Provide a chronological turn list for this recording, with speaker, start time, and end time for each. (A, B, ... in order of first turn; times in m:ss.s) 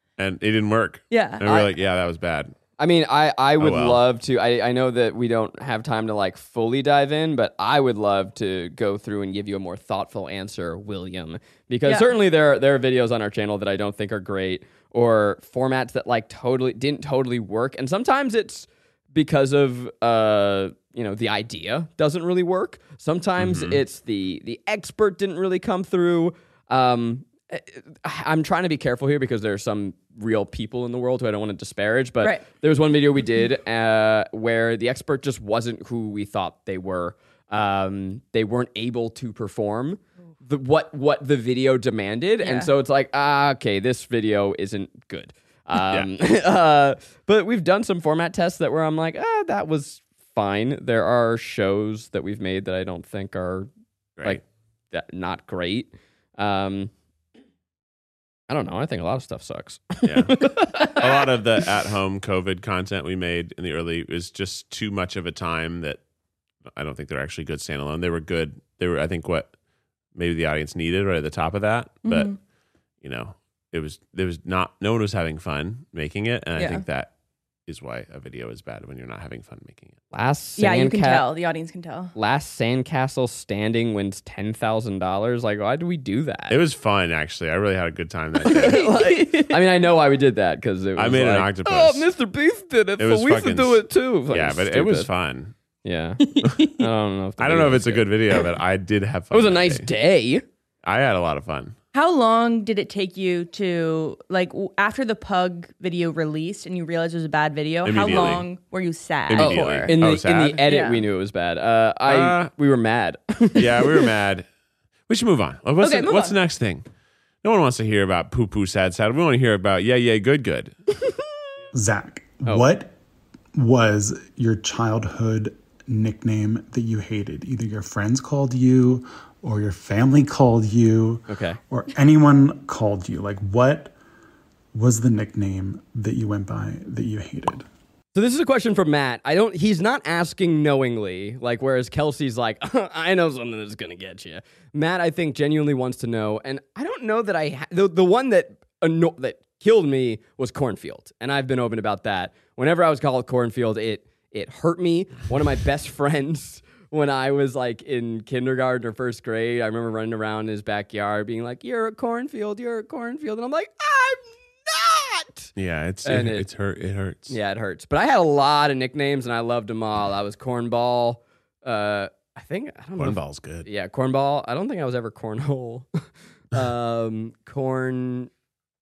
0:00.2-0:02.5 A
0:01.1-0:01.7 B
0:02.8-0:53.7 C
0:03.6-0:04.0 A
0:11.8-0:12.1 B
0:23.4-0:23.8 A
0:42.4-0:42.7 B
0:45.8-0:46.1 A
0:54.2-0:54.4 A
0:54.2-0:56.9 C
0:58.5-1:01.0 C
1:00.0-1:06.0 A
1:06.7-1:09.5 A
1:10.2-1:12.3 A
1:12.0-1:12.4 B
1:13.0-1:17.1 A
1:16.6-1:16.8 B
1:17.7-1:20.0 A
1:20.1-1:21.3 C
1:20.6-1:22.1 B
1:22.2-1:26.6 C
1:26.5-1:28.9 A
1:28.4-1:35.1 C
1:28.5-1:29.6 B
1:31.0-1:32.1 A
1:33.0-1:35.5 A
1:35.8-1:38.4 C
1:36.3-1:36.8 B
1:37.4-1:39.9 A
1:39.3-1:40.4 C
1:40.8-1:41.8 A
1:41.9-1:50.0 B
1:47.8-1:48.5 A
1:49.3-1:50.6 A
1:49.4-1:54.0 C
1:50.6-1:51.1 B
1:52.1-1:52.5 A
1:53.6-1:54.5 A
1:55.1-1:56.8 A
1:55.8-1:56.4 B
1:57.4-2:00.7 A
2:01.7-2:02.9 D
2:03.6-2:13.9 D
2:11.3-2:11.6 C
2:14.7-2:17.6 D
2:18.1-2:45.5 C
2:45.6-2:47.4 A
2:46.0-2:46.5 C
2:47.3-2:58.3 C
2:53.0-2:53.7 A